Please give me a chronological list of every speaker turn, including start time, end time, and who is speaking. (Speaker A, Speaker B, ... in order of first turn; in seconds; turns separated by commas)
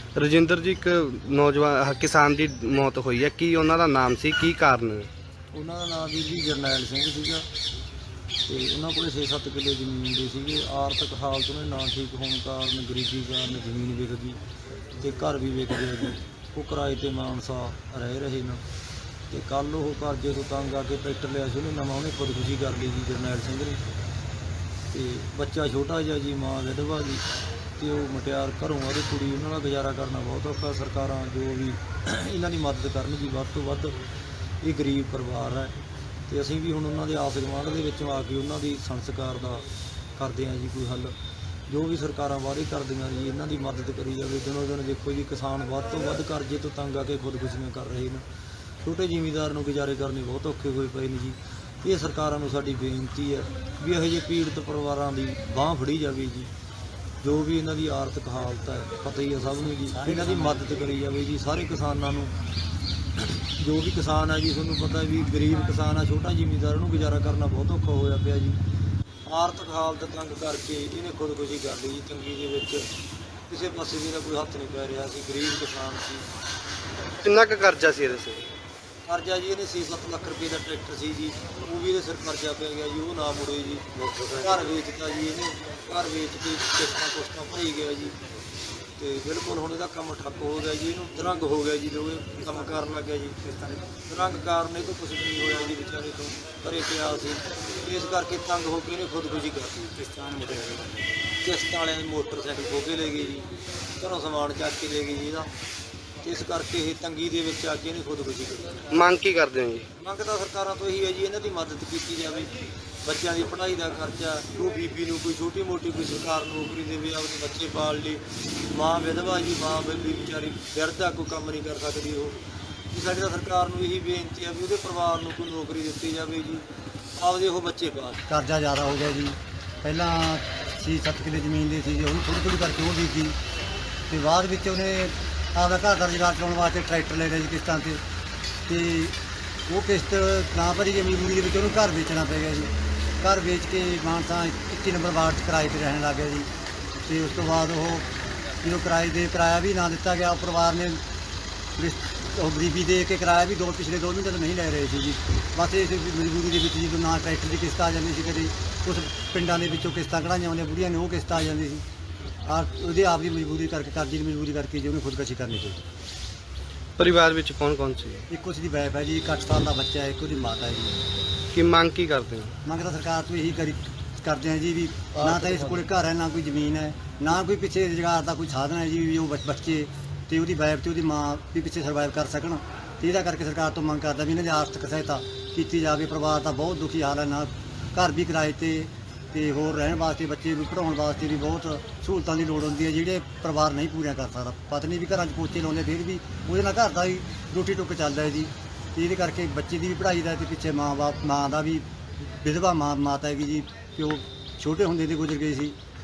Speaker A: 0.2-5.1, Speaker B: 5.5-7.5, Speaker B: 8.5-14.4, Speaker B: 14.9-18.6, Speaker B: 19.3-23.8, Speaker B: 24.9-27.2, Speaker B: 27.8-34.0, Speaker B: 34.6-35.8, Speaker B: 36.3-39.6, Speaker B: 40.2-41.1, Speaker B: 41.7-48.3, Speaker B: 48.8-56.5, Speaker B: 57.2-62.3, Speaker B: 63.2-68.6, Speaker B: 69.3-72.9, Speaker B: 73.5-76.3, Speaker A: 77.2-78.5, Speaker B: 79.1-88.2, Speaker A: 84.0-84.5, Speaker B: 89.0-105.5, Speaker B: 106.2-108.9, Speaker A: 108.9-109.9, Speaker B: 110.0-112.5, Speaker B: 113.0-126.7, Speaker B: 127.2-128.2, Speaker C: 128.3-133.4, Speaker C: 134.1-138.0, Speaker C: 138.7-139.2, Speaker C: 139.7-146.5, Speaker C: 147.0-148.1, Speaker C: 148.6-151.0, Speaker C: 151.8-161.8, Speaker C: 162.5-165.8, Speaker A: 167.0-168.3, Speaker C: 168.3-171.0, Speaker A: 171.5-172.6, Speaker C: 172.7-205.8, Speaker B: 175.1-175.9